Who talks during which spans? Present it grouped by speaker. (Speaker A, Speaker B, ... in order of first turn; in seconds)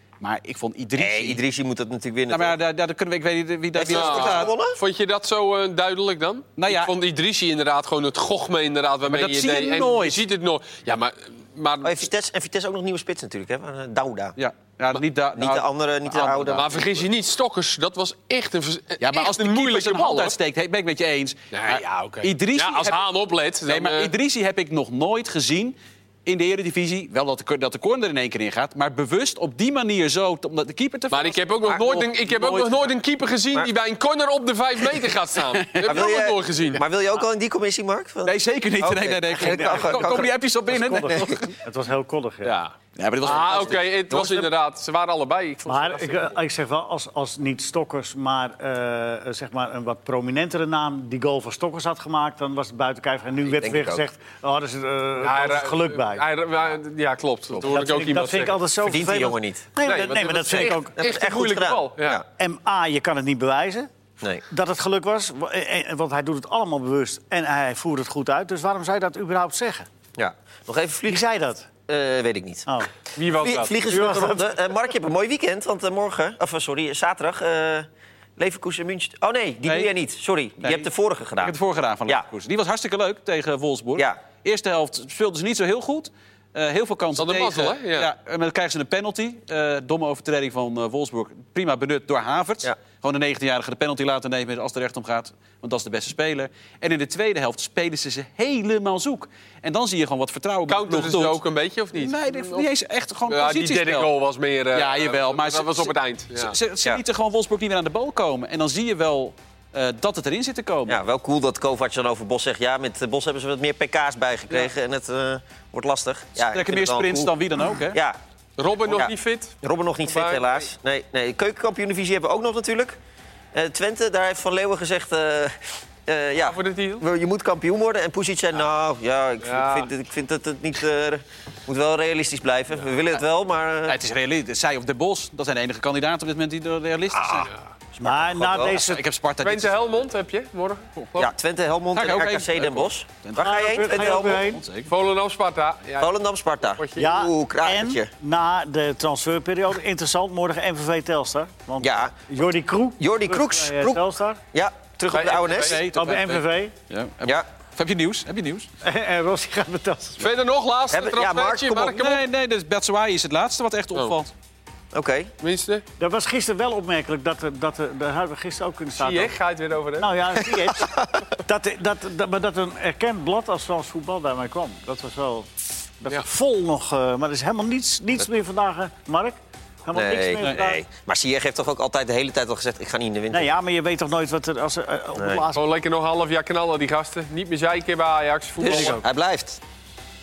Speaker A: 0.2-1.4, 2.3-4.5, 6.6-6.9, 9.1-10.2, 14.4-16.7, 19.0-23.0, 23.6-32.7, 35.7-36.0, 38.2-41.5, 43.0-44.0, 79.7-79.9, 80.6-80.9, 81.4-101.4, 101.9-104.1, 104.7-111.0, 116.4-118.0, 133.9-137.5, 138.7-139.8, 141.9-144.9, 155.5-158.7, 161.9-164.3, 180.4-180.6
Speaker B: 1.0-2.5, 3.7-4.8, 11.8-14.3, 15.3-17.0, 35.8-41.4, 43.3-44.5, 53.5-54.0, 58.8-59.6, 60.9-62.2, 70.2-71.2, 71.9-72.7, 73.3-81.5, 110.9-117.3, 117.9-118.2, 118.9-123.0, 123.5-134.0, 137.9-138.8, 141.2-144.5, 146.0-148.1, 151.8-152.1, 153.0-154.0, 154.5-155.8, 160.9-162.1, 164.9-165.3, 170.9-171.3, 179.9-183.5, 185.2-185.4, 188.6-189.6
Speaker C: 3.9-12.0, 16.5-20.3, 21.5-24.1, 31.1-36.8, 42.4-46.4, 55.2-58.6, 59.8-62.2, 73.1-73.8, 87.2-88.1, 100.7-102.7, 103.3-106.6, 118.6-120.6, 126.4-127.0, 129.4-129.9, 139.4-141.3, 144.8-146.1, 146.7-147.1, 155.1-155.8, 160.2-162.2, 165.4-165.8, 169.0-170.3, 185.5-189.0
Speaker D: 39.4-42.5, 45.7-56.2, 57.6-60.9, 62.3-63.9, 64.5-69.9, 71.1-71.7, 73.9-74.5, 138.0-139.0, 143.4-144.6, 147.0-154.4, 155.9-156.7, 158.8-160.3, 166.0-169.3, 170.0-180.8, 183.3-185.6